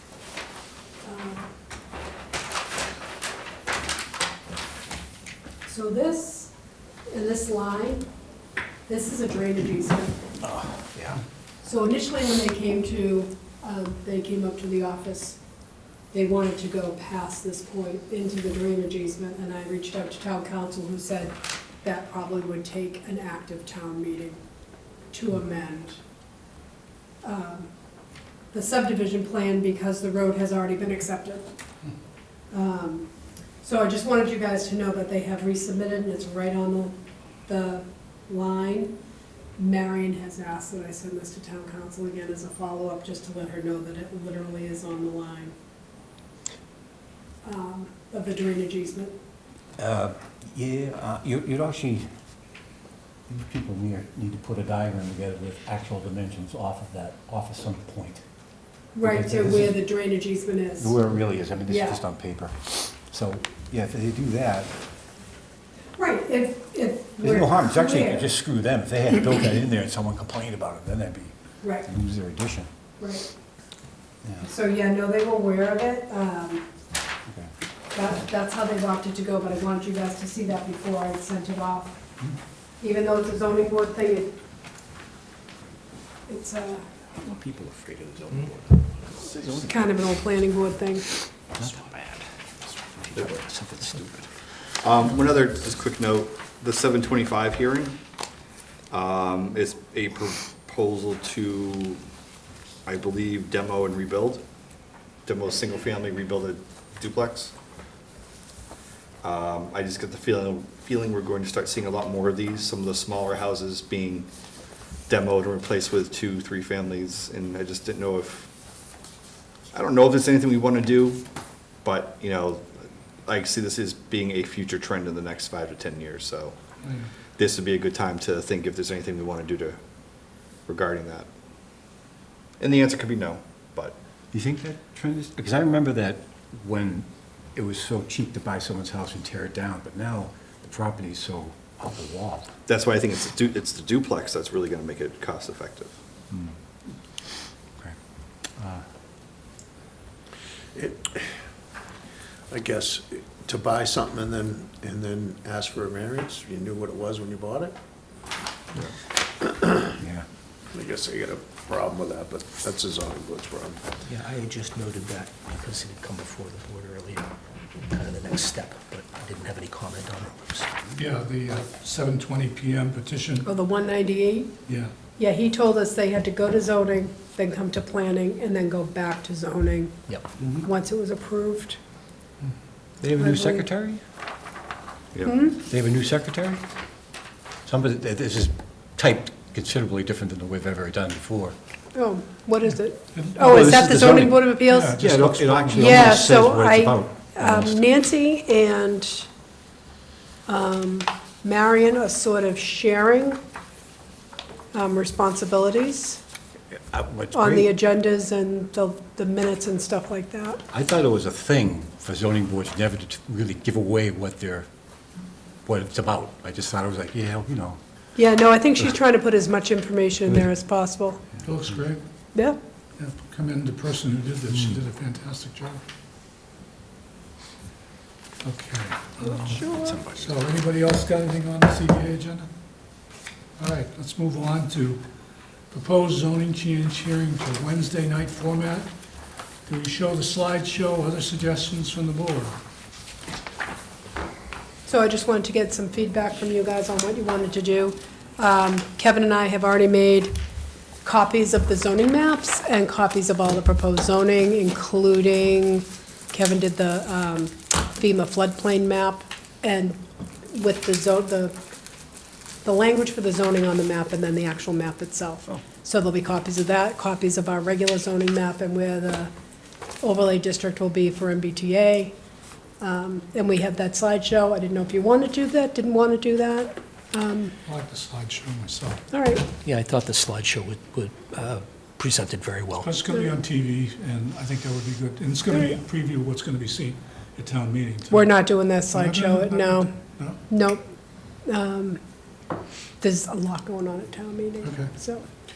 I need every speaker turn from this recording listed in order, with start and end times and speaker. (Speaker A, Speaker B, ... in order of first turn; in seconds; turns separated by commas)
Speaker A: 1.0-1.5, Speaker A: 5.6-6.5, Speaker A: 7.1-8.1, Speaker A: 8.9-10.2, Speaker B: 10.4-11.2, Speaker A: 11.6-15.4, Speaker A: 16.1-24.4, Speaker A: 25.1-26.0, Speaker A: 27.2-27.7, Speaker A: 28.5-31.5, Speaker A: 32.5-33.1, Speaker A: 33.6-37.0, Speaker A: 37.5-38.9, Speaker A: 39.6-45.5, Speaker A: 47.4-49.1, Speaker B: 49.8-52.0, Speaker B: 53.3-58.2, Speaker A: 59.0-61.0, Speaker B: 59.0-59.8, Speaker B: 60.8-64.7, Speaker A: 61.7-62.0, Speaker A: 66.0-68.2, Speaker B: 67.2-72.7, Speaker A: 71.6-71.9, Speaker A: 73.0-73.3, Speaker A: 74.4-76.7, Speaker A: 77.9-82.0, Speaker A: 82.8-84.3, Speaker A: 86.3-86.9, Speaker B: 87.2-89.9, Speaker A: 89.6-91.1, Speaker B: 91.6-94.2, Speaker C: 94.8-98.0, Speaker C: 98.9-102.0, Speaker C: 102.8-104.4, Speaker C: 105.2-107.5, Speaker C: 109.2-114.3, Speaker C: 115.1-118.5, Speaker C: 119.7-121.2, Speaker C: 121.8-122.7, Speaker C: 123.2-126.5, Speaker D: 126.8-127.1, Speaker C: 127.4-129.8, Speaker C: 130.7-131.3, Speaker C: 132.6-133.9, Speaker B: 134.3-142.5, Speaker C: 142.7-145.9, Speaker B: 148.6-148.8, Speaker E: 150.7-151.3, Speaker E: 152.5-157.7, Speaker E: 159.4-159.9, Speaker B: 160.0-160.2, Speaker E: 160.7-163.8, Speaker F: 164.1-167.3, Speaker F: 167.9-170.8, Speaker D: 170.9-173.5, Speaker A: 173.4-174.5, Speaker D: 174.7-174.9, Speaker A: 175.2-181.8, Speaker B: 183.0-184.0, Speaker A: 183.2-183.6, Speaker A: 185.2-185.6, Speaker B: 185.5-186.6, Speaker B: 187.6-191.5, Speaker A: 191.9-195.0, Speaker D: 193.1-196.1, Speaker B: 193.4-197.8, Speaker A: 195.7-199.3, Speaker A: 200.5-203.4, Speaker A: 204.7-206.2, Speaker B: 206.7-207.7, Speaker A: 207.3-210.6, Speaker B: 210.7-214.7, Speaker B: 215.7-217.8, Speaker A: 218.2-221.2, Speaker D: 221.4-222.0, Speaker D: 223.0-225.8, Speaker D: 228.4-232.5, Speaker A: 229.2-230.0, Speaker B: 229.7-230.3, Speaker D: 233.6-235.0, Speaker D: 235.7-238.9, Speaker D: 239.7-242.6, Speaker A: 244.8-250.3, Speaker A: 251.0-261.5, Speaker A: 262.6-269.3, Speaker A: 270.0-272.1, Speaker A: 272.8-277.5, Speaker D: 277.6-279.0, Speaker A: 279.1-279.4, Speaker F: 279.6-282.9, Speaker D: 282.8-290.4, Speaker A: 285.5-285.8, Speaker A: 288.1-289.9, Speaker A: 290.5-290.8, Speaker A: 291.4-292.0, Speaker A: 293.0-295.2, Speaker D: 294.6-294.9